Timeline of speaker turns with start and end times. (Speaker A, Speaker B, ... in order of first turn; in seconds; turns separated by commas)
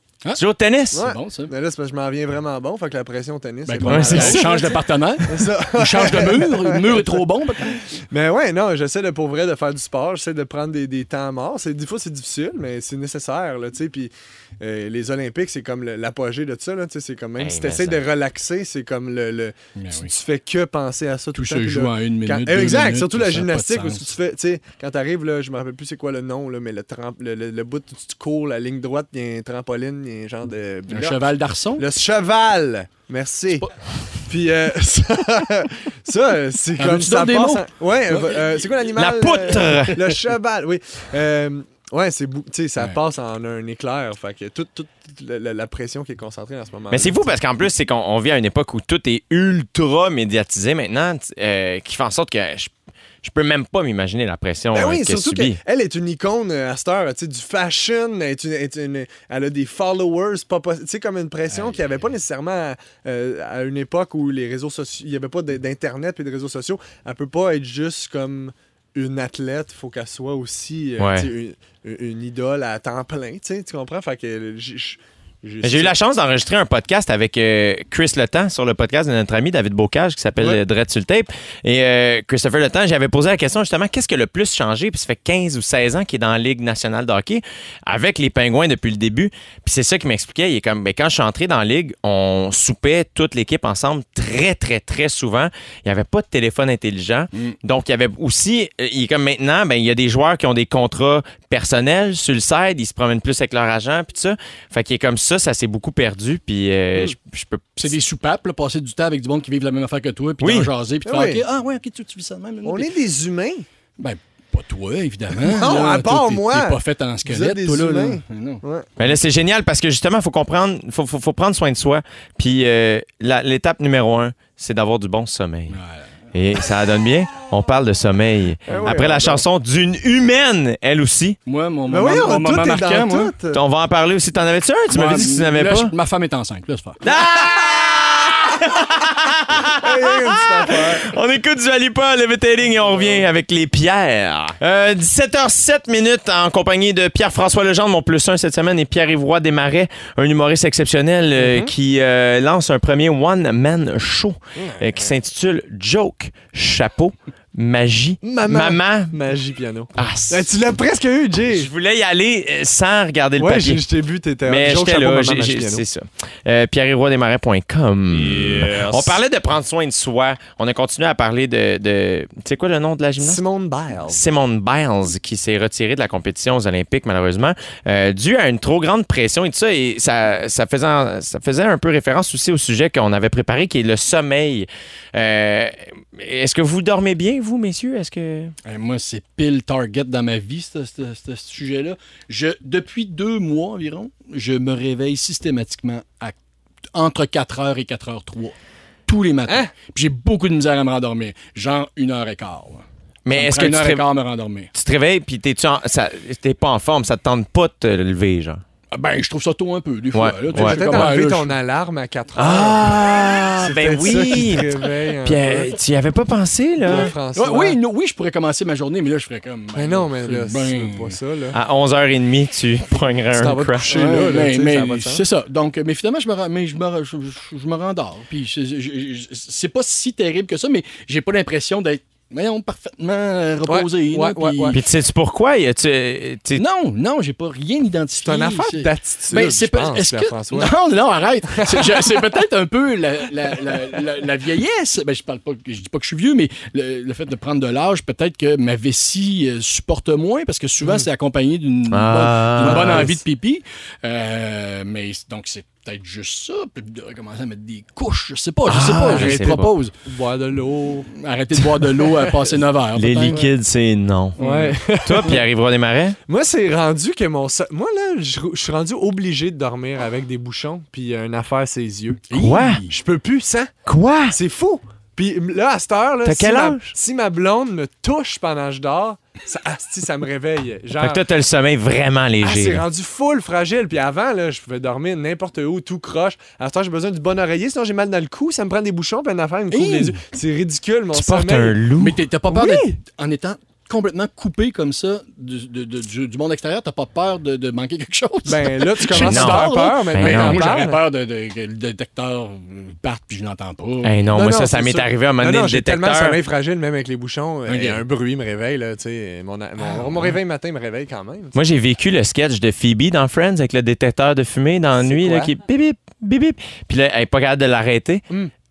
Speaker A: 0.3-1.0, Speaker B: 0.9-1.5, Speaker C: 0.9-7.2, Speaker B: 3.6-7.8, Speaker A: 3.9-4.5, Speaker C: 8.1-31.2, Speaker A: 17.4-18.0, Speaker B: 19.8-20.1, Speaker B: 21.3-24.1, Speaker B: 30.9-31.9, Speaker C: 31.8-47.2, Speaker B: 36.8-38.7, Speaker A: 38.9-40.1, Speaker A: 46.9-55.6, Speaker C: 54.7-75.9, Speaker A: 71.0-71.3, Speaker A: 75.6-108.0, Speaker B: 107.8-112.9, Speaker A: 110.4-110.7, Speaker C: 111.0-111.4, Speaker C: 112.6-113.7, Speaker B: 114.0-118.6, Speaker C: 115.4-118.9, Speaker A: 119.0-125.8, Speaker B: 125.7-126.1, Speaker A: 126.3-131.4, Speaker C: 128.7-129.4, Speaker B: 131.4-133.3, Speaker C: 131.9-133.6, Speaker A: 133.5-135.9, Speaker B: 134.9-137.0, Speaker A: 137.0-159.1, Speaker C: 137.1-138.0, Speaker C: 139.7-141.1, Speaker C: 142.7-143.2, Speaker C: 151.4-151.7, Speaker C: 154.6-155.1, Speaker C: 158.2-161.7, Speaker A: 159.9-160.5, Speaker A: 161.5-163.8, Speaker C: 163.4-165.8, Speaker A: 164.4-173.4, Speaker C: 168.1-169.1, Speaker C: 173.2-174.2, Speaker A: 174.1-188.5, Speaker B: 188.6-196.3, Speaker B: 196.9-198.5, Speaker B: 199.1-204.7, Speaker A: 203.2-204.0, Speaker A: 204.7-208.6, Speaker B: 208.9-211.6, Speaker A: 210.1-211.1, Speaker C: 210.5-215.8, Speaker A: 212.3-217.1, Speaker C: 216.8-217.8, Speaker B: 216.8-221.2, Speaker C: 219.7-221.6, Speaker A: 221.5-223.9, Speaker C: 223.3-225.2, Speaker B: 223.9-234.8, Speaker C: 233.7-234.8, Speaker A: 234.7-236.6, Speaker B: 236.5-259.9, Speaker C: 238.2-240.7, Speaker C: 241.5-242.2, Speaker A: 251.9-253.1, Speaker C: 252.6-253.2, Speaker A: 258.7-259.7, Speaker C: 259.1-262.5, Speaker B: 261.1-263.5, Speaker A: 262.9-266.2, Speaker B: 264.4-264.8, Speaker C: 264.4-265.4, Speaker C: 266.3-272.2, Speaker B: 272.3-272.9, Speaker A: 272.3-272.8, Speaker C: 272.9-273.7, Speaker A: 273.9-274.4, Speaker C: 274.3-281.2, Speaker A: 276.2-276.9, Speaker A: 281.0-282.8, Speaker C: 282.4-291.8, Speaker B: 289.7-290.2, Speaker A: 291.1-292.2, Speaker B: 292.0-304.2, Speaker C: 292.5-292.9, Speaker C: 298.4-301.0, Speaker A: 299.1-300.6, Speaker A: 304.0-306.4, Speaker C: 304.3-311.6, Speaker B: 307.7-308.0, Speaker B: 309.8-310.4, Speaker A: 311.5-318.2, Speaker C: 315.0-315.5